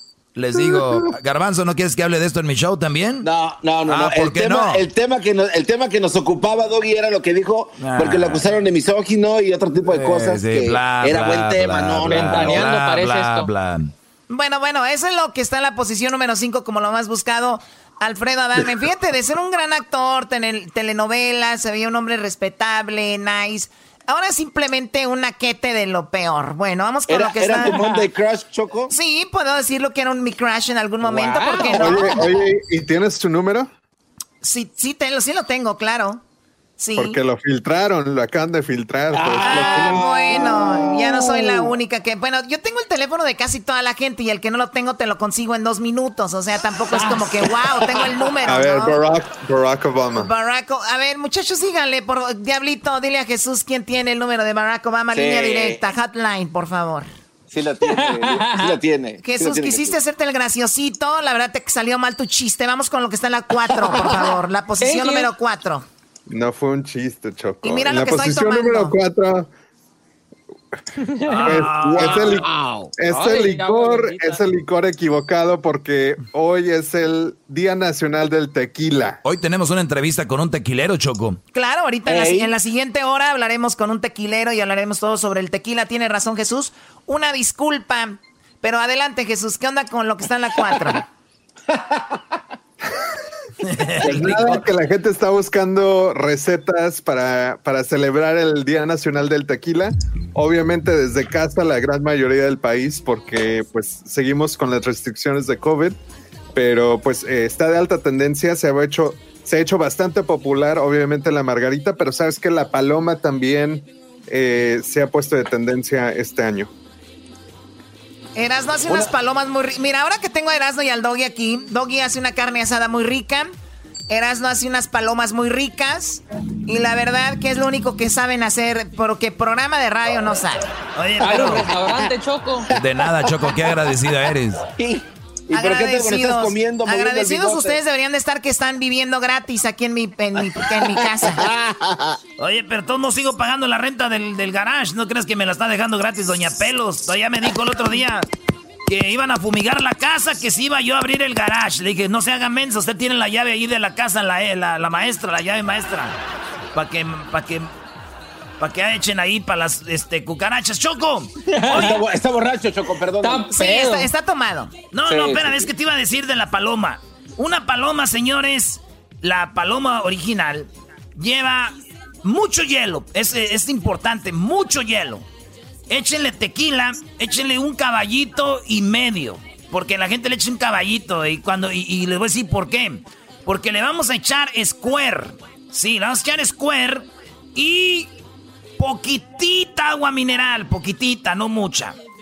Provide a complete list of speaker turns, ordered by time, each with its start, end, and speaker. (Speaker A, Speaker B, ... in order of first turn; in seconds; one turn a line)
Speaker A: 0.3-3.3
Speaker B: 3.2-12.6
Speaker A: 3.9-4.8
Speaker A: 7.8-8.5
Speaker A: 9.9-13.9
Speaker C: 12.0-13.5
Speaker D: 14.3-27.9
Speaker B: 27.1-28.9
Speaker C: 27.7-28.0
Speaker D: 28.9-32.2
Speaker B: 31.0-32.3
Speaker E: 31.8-33.7
Speaker D: 34.4-36.2
Speaker D: 36.8-37.2
Speaker E: 37.0-40.1
Speaker B: 39.1-41.7
Speaker D: 39.4-49.0
Speaker B: 46.9-48.0
Speaker E: 48.5-50.3
Speaker D: 50.1-57.1
Speaker B: 55.1-55.8
Speaker B: 57.5-60.0
Speaker C: 57.8-58.8
Speaker D: 59.2-65.8
Speaker B: 63.8-64.2
Speaker C: 64.8-65.3
Speaker E: 66.3-69.5
Speaker D: 67.6-68.9
Speaker C: 71.1-74.5
Speaker F: 71.3-72.4
Speaker E: 71.4-79.2
Speaker A: 79.2-81.4
Speaker D: 81.5-91.0
Speaker B: 82.1-82.5
Speaker B: 90.7-91.0
Speaker B: 91.7-92.2
Speaker F: 93.7-94.4
Speaker B: 94.0-94.6
Speaker E: 94.1-106.0
Speaker E: 106.5-116.7
Speaker D: 118.3-123.5
Speaker D: 124.1-130.7
Speaker F: 130.9-131.7
Speaker C: 131.2-132.7
Speaker B: 131.3-132.1
Speaker A: 132.8-134.6
Speaker B: 134.8-137.8
Speaker D: 135.5-141.5
Speaker B: 140.5-142.2
Speaker F: 142.4-148.3
Speaker F: 148.9-156.2
Speaker F: 156.7-157.7
Speaker F: 158.6-162.0
Speaker C: 161.5-162.0
Speaker B: 161.7-163.5
Speaker C: 163.2-164.1
Speaker D: 163.5-164.9
Speaker F: 164.9-175.2
Speaker B: 165.1-165.7
Speaker F: 175.9-188.1
Speaker F: 188.8-191.9